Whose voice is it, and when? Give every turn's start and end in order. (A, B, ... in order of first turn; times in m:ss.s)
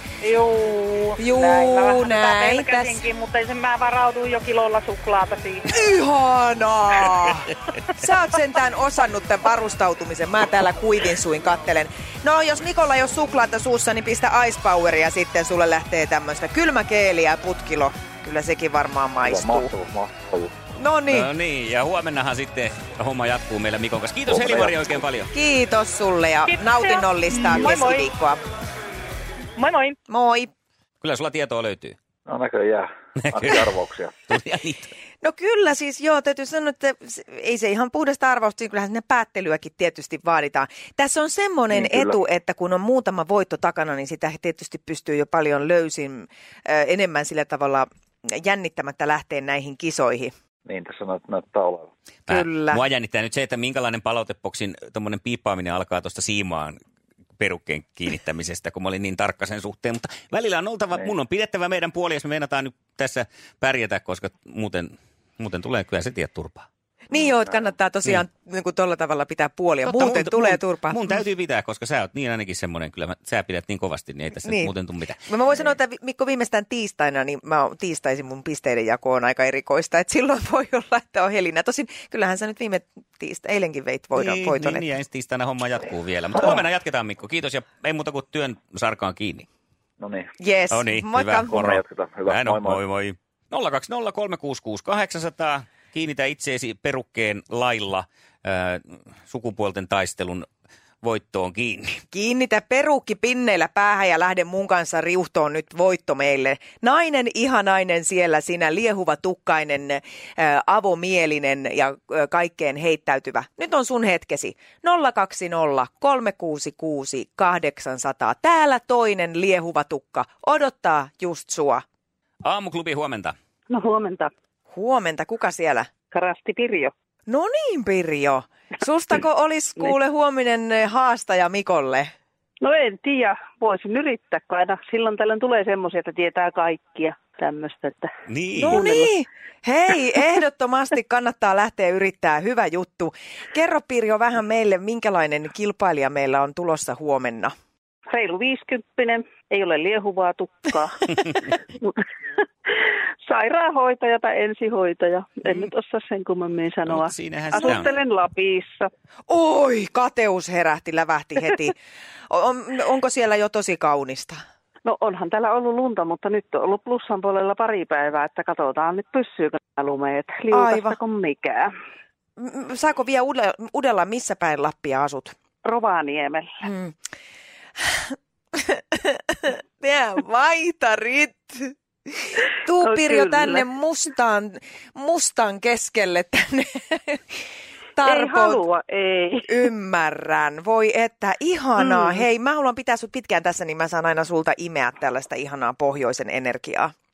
0:00.2-0:05.6 A
0:01.2-0:03.0 B
0:05.7-0:19.7 B
0:19.2-0:20.5 C
0:20.8-0:21.3 B
0:21.1-0:25.3 D
0:24.3-0:24.9 C
0:25.3-0:28.4 B
0:26.5-0:28.1 A
0:29.6-0:30.0 A
0:30.1-0:30.5 B
0:31.0-0:32.0 D
0:32.3-0:34.2 C
0:33.2-0:33.7 D
0:34.3-0:34.9 D
0:35.2-0:50.3 B
0:41.7-0:42.1 C
0:50.6-0:51.9 C
0:52.3-0:56.8 D
0:52.3-0:52.8 B
0:57.4-1:06.7 D
1:07.1-1:11.0 B
1:09.8-1:15.2 D
1:14.4-1:14.7 B
1:15.2-1:24.8 B
1:24.1-1:29.5 D
1:30.0-1:30.3 C
1:30.4-1:31.5 B
1:30.7-1:40.5 D
1:31.5-1:32.8 C
1:41.0-1:42.0 D
1:42.1-2:01.8 B
2:02.4-2:03.3 D
2:03.7-2:04.3 E
2:04.7-2:05.9 B
2:06.1-2:06.9 E
2:07.3-2:12.1 B
2:12.6-2:19.1 E
2:18.3-2:18.9 D
2:18.6-2:27.5 B
2:28.1-2:32.0 E
2:32.7-2:38.9 E
2:36.9-2:37.9 D
2:39.3-2:41.8 B
2:42.3-2:44.4 B
2:44.8-2:51.7 E
2:50.5-2:51.0 B
2:52.4-2:55.3 B
2:55.6-2:56.5 E
2:56.6-2:56.9 B
2:57.8-3:07.2 B
3:02.8-3:03.6 E
3:08.0-3:08.6 B
3:08.0-3:09.6 E
3:09.5-3:16.9 B
3:11.8-3:12.2 E